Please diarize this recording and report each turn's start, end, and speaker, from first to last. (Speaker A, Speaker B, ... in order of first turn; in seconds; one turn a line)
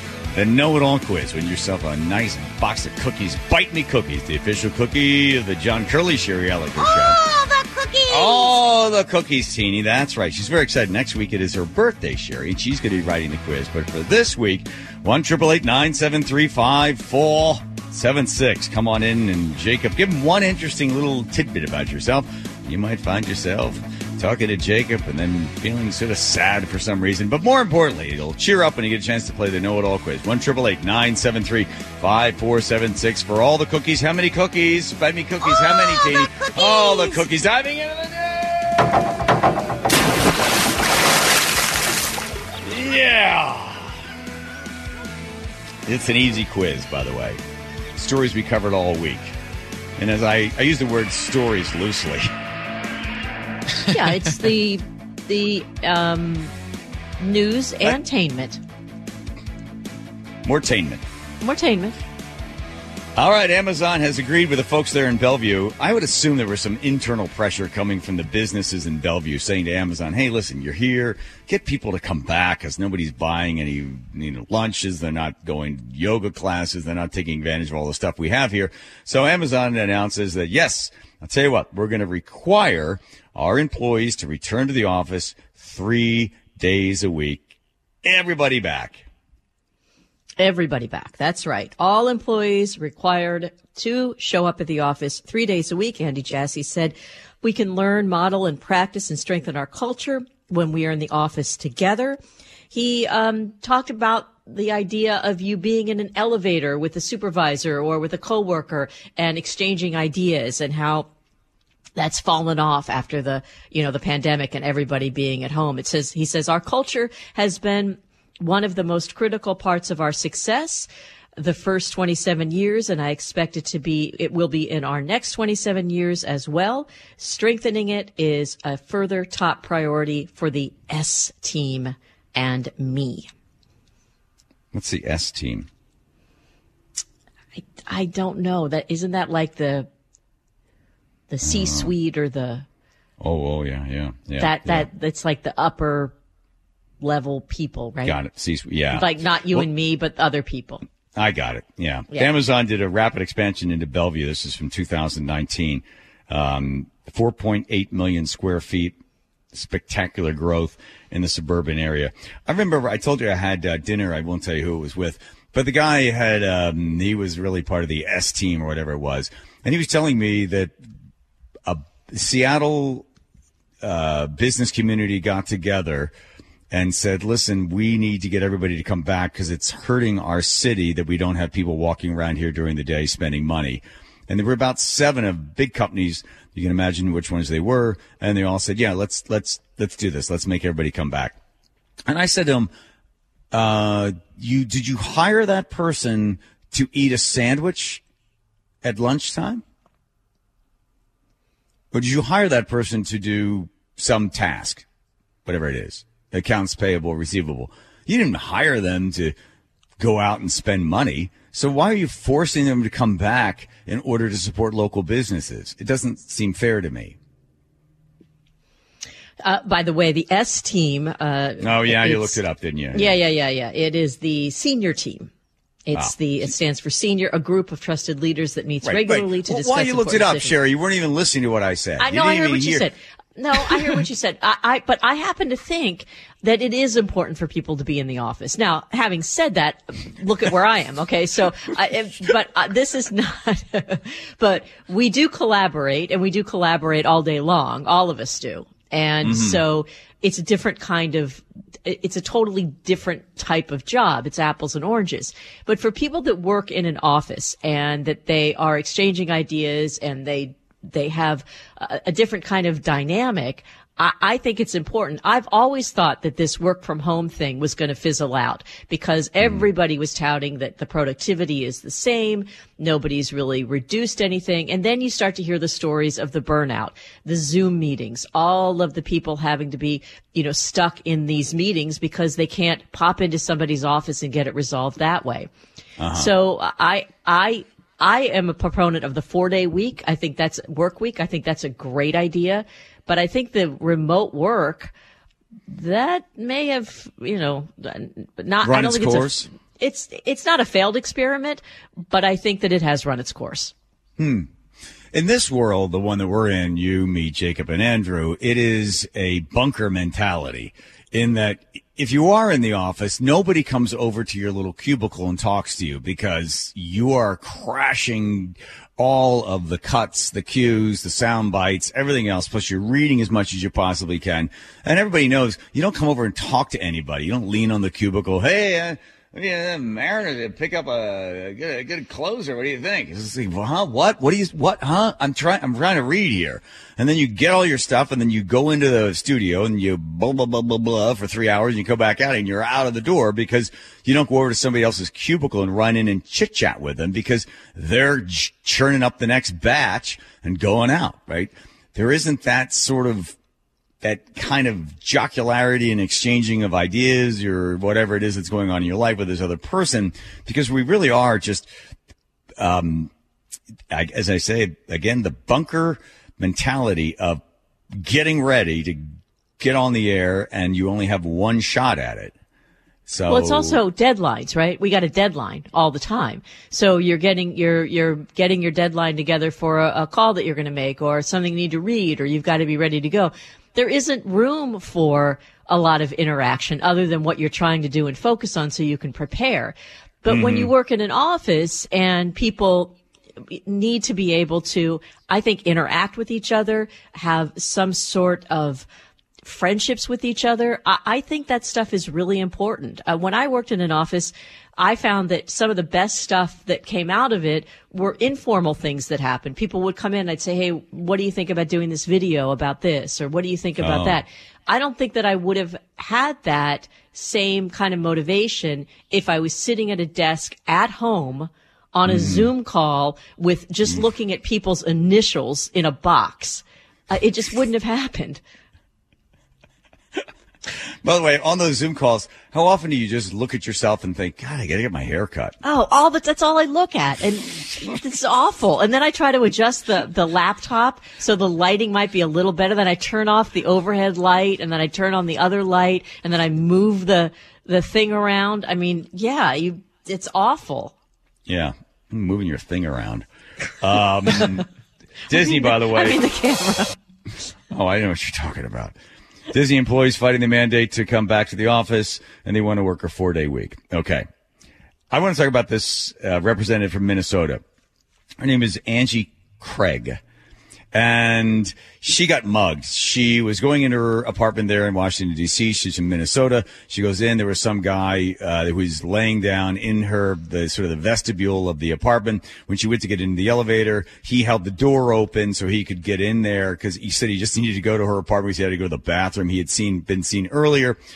Speaker A: 0.3-7.2
Speaker B: 6.8-8.6
Speaker A: 8.1-38.9
Speaker B: 35.4-37.3
Speaker A: 42.6-44.0
Speaker A: 45.9-47.4
Speaker A: 48.0-49.3
Speaker A: 50.0-52.3
Speaker C: 53.9-56.5
Speaker C: 57.2-58.6
Speaker A: 60.5-61.0
Speaker C: 61.4-62.0
Speaker A: 63.2-87.5
Speaker A: 88.0-89.0
Speaker C: 90.4-102.2
Speaker C: 102.7-111.1
Speaker C: 112.0-133.3
Speaker A: 134.7-135.7
Speaker C: 137.6-139.9
Speaker C: 141.3-142.7
Speaker A: 141.4-141.9
Speaker A: 143.2-144.9
Speaker C: 144.4-146.1
Speaker C: 147.0-148.2
Speaker A: 148.0-149.7
Speaker C: 148.9-150.8
Speaker A: 151.1-159.0
Speaker A: 159.5-170.7
Speaker A: 171.7-173.1
Speaker A: 173.8-176.1
Speaker A: 176.7-191.4
Speaker A: 192.1-192.7
Speaker A: 193.5-198.0
Speaker A: 198.8-199.6
Speaker A: 201.9-204.8
Speaker A: 205.4-209.3
Speaker A: 210.0-217.2
Speaker C: 219.4-222.4
Speaker A: 221.6-223.1
Speaker C: 222.9-225.3
Speaker C: 225.8-230.6
Speaker A: 228.8-232.8
Speaker C: 232.0-285.5
Speaker A: 249.2-249.6
Speaker A: 286.0-286.3
Speaker C: 286.1-294.9
Speaker C: 295.7-303.7
Speaker A: 298.6-299.5
Speaker A: 304.2-304.5
Speaker A: 305.1-353.3
Speaker A: 354.0-361.7
Speaker A: 362.6-363.1
Speaker A: 363.9-367.4
Speaker A: 367.9-369.1
Speaker A: 369.6-372.3
Speaker A: 373.1-373.8
Speaker C: 373.3-393.0
Speaker A: 390.3-390.7
Speaker C: 393.5-398.9
Speaker C: 399.4-428.4
Speaker A: 413.8-414.2
Speaker A: 422.1-422.5
Speaker A: 431.0-435.6
Speaker C: 435.6-450.9
Speaker A: 451.5-453.2
Speaker A: 453.8-454.7
Speaker A: 455.3-456.2
Speaker C: 455.4-456.9
Speaker A: 457.7-458.9
Speaker A: 459.5-464.3
Speaker A: 465.1-467.6
Speaker A: 468.4-470.2
Speaker A: 470.9-491.0